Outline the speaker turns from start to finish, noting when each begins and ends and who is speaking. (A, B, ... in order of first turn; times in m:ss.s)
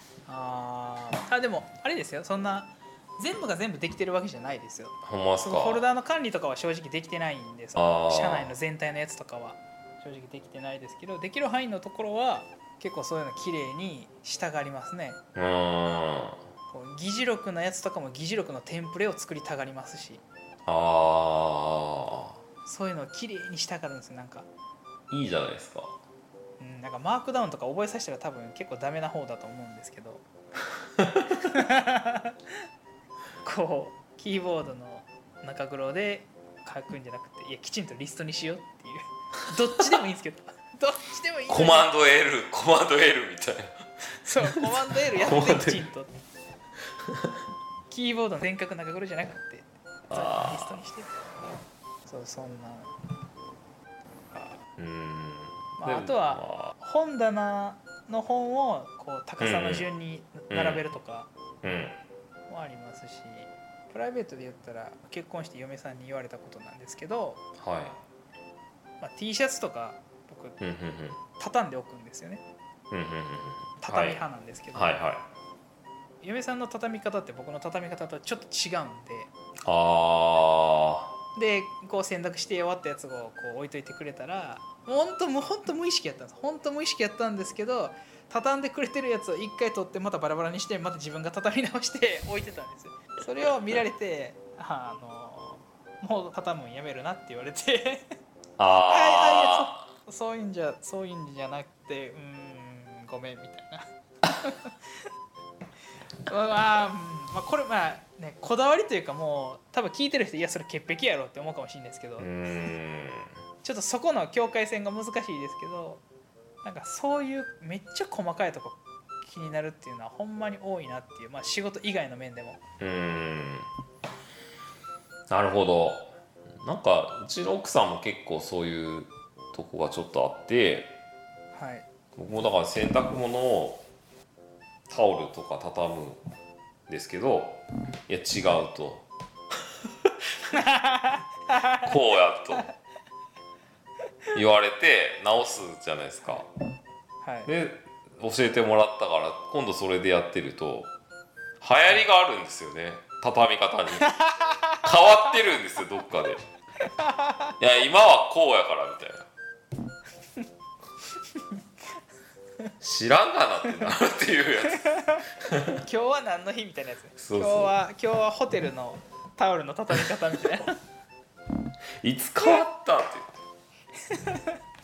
0:00.3-0:15.2 A
0:05.0-0:05.8 B
0:07.8-0:08.5 B
0:15.4-0:16.4 B
0:16.7-0:20.2 A
0:20.7-0:22.4 B
0:22.7-0:24.5 A
0:25.1-0:26.0 B
0:26.6-0:30.2 A
0:31.0-0:31.2 B
0:31.4-0:32.4 A
0:33.4-0:41.9 A
0:41.5-0:43.8 B
0:44.1-0:46.1 A
0:44.4-0:45.8 B
0:47.1-0:47.3 B
0:47.9-0:51.1 A
0:50.1-0:50.8 B
0:52.1-0:52.9 A
0:54.3-0:54.6 A
0:54.8-0:56.7 B
0:55.8-1:01.3 A
0:59.4-0:59.9 B
1:00.5-1:00.8 B
1:01.6-1:02.0 B
1:02.5-1:07.4 A
1:07.6-1:08.0 B
1:09.0-1:10.6 A
1:10.6-1:11.2 B
1:11.4-1:12.4 A
1:12.9-1:14.2 B
1:13.8-1:15.0 A
1:14.7-1:15.2 B
1:16.2-1:19.3 A
1:19.6-1:21.1 B
1:21.4-1:38.0 A
1:38.6-1:39.9 B
1:38.9-1:44.7 A
1:46.3-1:52.3 A
1:52.2-1:53.3 B
1:53.6-1:56.0 A
1:56.6-2:02.6 A
2:02.8-2:03.7 B
2:05.3-2:10.9 B
2:11.5-2:11.8 A
2:12.2-2:13.8 B
2:14.9-2:16.2 B
2:16.9-2:19.1 B
2:20.5-2:21.9 A
2:21.8-2:22.7 B
2:24.3-2:26.5 B
2:27.2-2:27.5 A
2:27.5-2:30.9 B
2:31.6-2:34.1 B
2:34.0-2:34.8 A
2:34.8-2:36.4 B
2:36.8-2:37.6 A
2:37.6-2:39.3 B
2:42.8-2:45.8 B
2:44.8-2:50.8 A
2:47.2-2:47.7 B
2:52.0-2:53.4 B
2:54.1-2:54.6 A